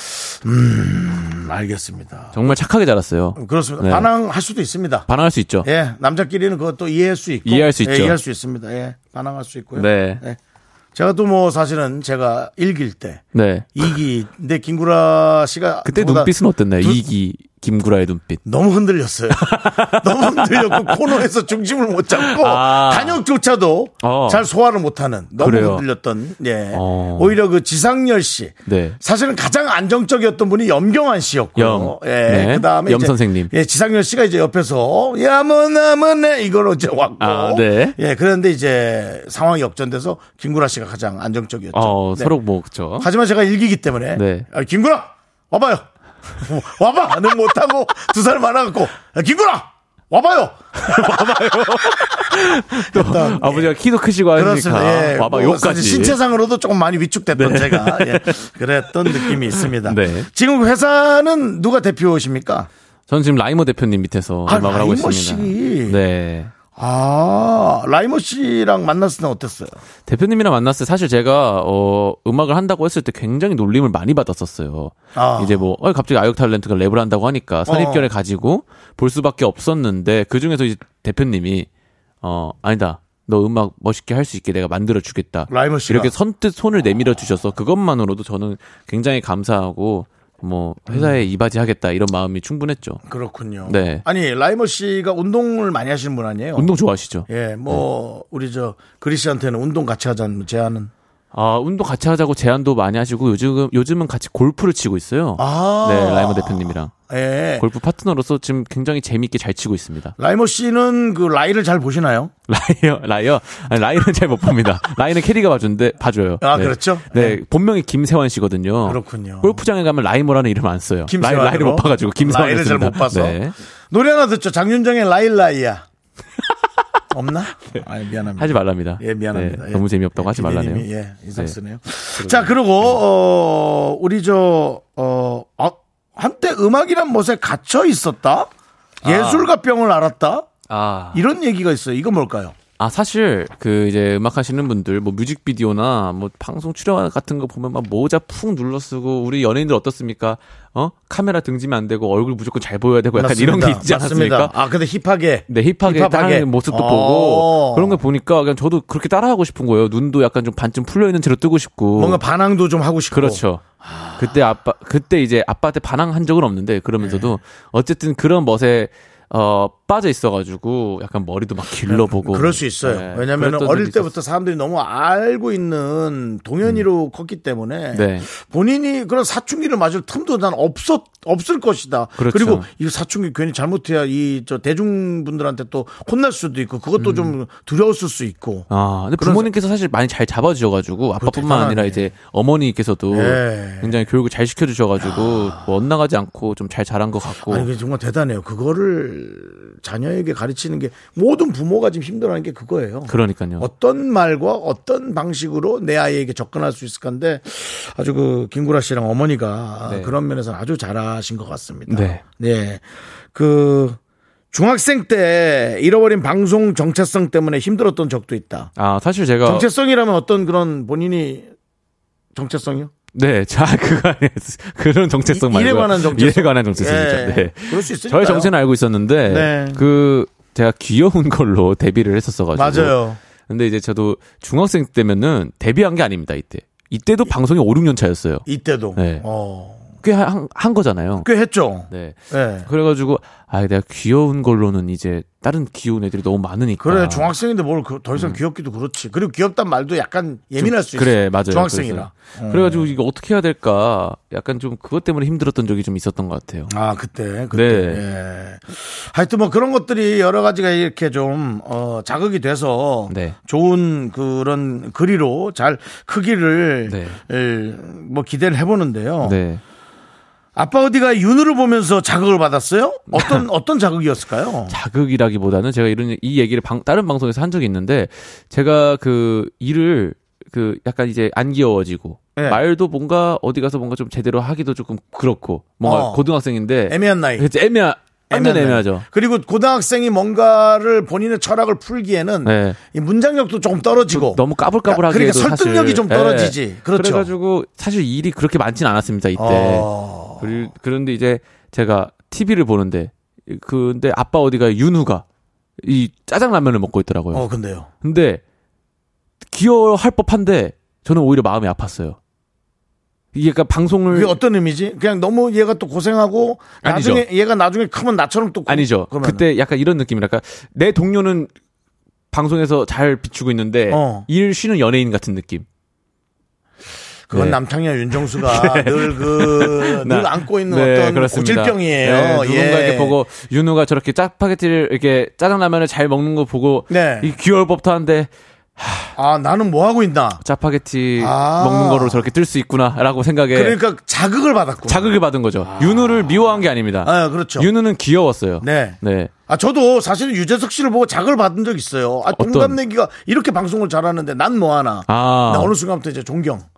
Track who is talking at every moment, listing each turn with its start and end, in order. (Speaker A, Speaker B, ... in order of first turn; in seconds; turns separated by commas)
Speaker A: 0.3-2.4, Speaker B: 2.3-4.1, Speaker A: 3.4-5.1, Speaker B: 5.1-5.7, Speaker A: 5.6-10.4, Speaker B: 7.5-8.2, Speaker B: 9.8-10.2, Speaker A: 10.9-17.0, Speaker B: 13.3-13.8, Speaker B: 15.8-18.4, Speaker A: 18.4-42.4, Speaker B: 19.4-21.2, Speaker B: 22.1-23.2, Speaker B: 24.0-24.5, Speaker B: 25.4-25.9, Speaker B: 26.7-27.4, Speaker B: 28.7-29.0, Speaker B: 31.6-33.5, Speaker B: 37.2-38.0, Speaker B: 41.7-43.1, Speaker A: 43.0-45.9, Speaker B: 44.1-44.5, Speaker A: 46.4-53.7, Speaker B: 50.8-56.2, Speaker A: 54.3-62.7, Speaker B: 57.4-58.4, Speaker B: 59.0-60.3, Speaker B: 63.1-66.5, Speaker A: 64.5-66.0, Speaker A: 66.8-69.8, Speaker B: 70.1-81.7, Speaker A: 75.2-75.6, Speaker A: 77.7-78.1, Speaker B: 82.2-93.0, Speaker A: 85.5-86.1, Speaker A: 90.9-91.2, Speaker A: 93.1-96.7, Speaker B: 93.7-94.0, Speaker B: 96.6-97.8, Speaker A: 97.3-100.9, Speaker B: 101.3-106.9, Speaker A: 105.4-107.7, Speaker B: 107.6-110.2, Speaker A: 110.2-112.3, Speaker B: 112.5-123.5, Speaker A: 116.4-117.4, Speaker A: 118.8-119.6, Speaker A: 121.1-123.4, Speaker A: 123.9-125.9, Speaker A: 127.1-138.5, Speaker B: 128.4-131.6, Speaker B: 132.1-133.0, Speaker B: 139.0-139.5, Speaker A: 139.0-140.5, Speaker B: 140.7-141.2, Speaker A: 141.1-142.6, Speaker B: 142.8-154.6, Speaker A: 153.2-158.0, Speaker B: 155.5-162.2, Speaker A: 162.0-164.4, Speaker B: 163.1-163.6, Speaker B: 164.2-174.1, Speaker A: 167.0-167.3, Speaker A: 171.8-189.5, Speaker B: 177.9-178.3, Speaker B: 182.2-182.7, Speaker B: 187.0-187.3, Speaker B: 188.7-197.7, Speaker A: 191.2-192.1, Speaker A: 193.1-194.0, Speaker A: 195.0-195.7, Speaker A: 197.4-212.8, Speaker B: 203.1-203.7, Speaker B: 209.9-210.2, Speaker B: 211.9-212.2, Speaker A: 213.3-214.0, Speaker A: 214.5-218.7, Speaker B: 218.8-219.7, Speaker A: 219.4-221.5, Speaker A: 222.3-222.9, Speaker B: 223.1-233.0, Speaker A: 225.3-228.5, Speaker A: 229.3-229.8, Speaker A: 232.5-233.2, Speaker B: 233.5-238.4, Speaker A: 238.5-239.9, Speaker B: 239.0-239.2, Speaker B: 240.0-241.3, Speaker A: 241.2-242.7, Speaker B: 241.9-247.3, Speaker A: 246.8-252.9, Speaker B: 250.6-256.7, Speaker A: 256.7-269.4, Speaker B: 257.5-258.0, Speaker B: 263.1-263.4, Speaker B: 266.9-267.2, Speaker B: 269.2-269.6, Speaker A: 270.6-274.8, Speaker B: 273.1-273.4, Speaker B: 274.7-289.1, Speaker A: 285.8-286.2, Speaker A: 286.9-287.5, Speaker A: 288.3-297.3, Speaker B: 292.4-292.8, Speaker B: 294.1-299.9, Speaker A: 299.4-300.5, Speaker B: 300.4-305.2, Speaker B: 305.8-307.4, Speaker A: 307.3-307.9, Speaker B: 308.0-308.4, Speaker B: 309.5-312.2, Speaker B: 313.3-314.4, Speaker A: 314.1-319.4, Speaker B: 316.8-317.3, Speaker B: 318.7-321.5, Speaker B: 322.3-325.7, Speaker A: 323.9-324.3, Speaker A: 327.3-333.2, Speaker B: 327.3-327.6, Speaker B: 328.1-339.1, Speaker A: 336.9-337.3, Speaker A: 339.2-340.4, Speaker B: 340.4-343.8, Speaker A: 341.2-342.2, Speaker A: 343.5-347.7, Speaker B: 344.9-349.3, Speaker A: 348.6-356.7, Speaker B: 352.3-352.8, Speaker B: 355.1-355.7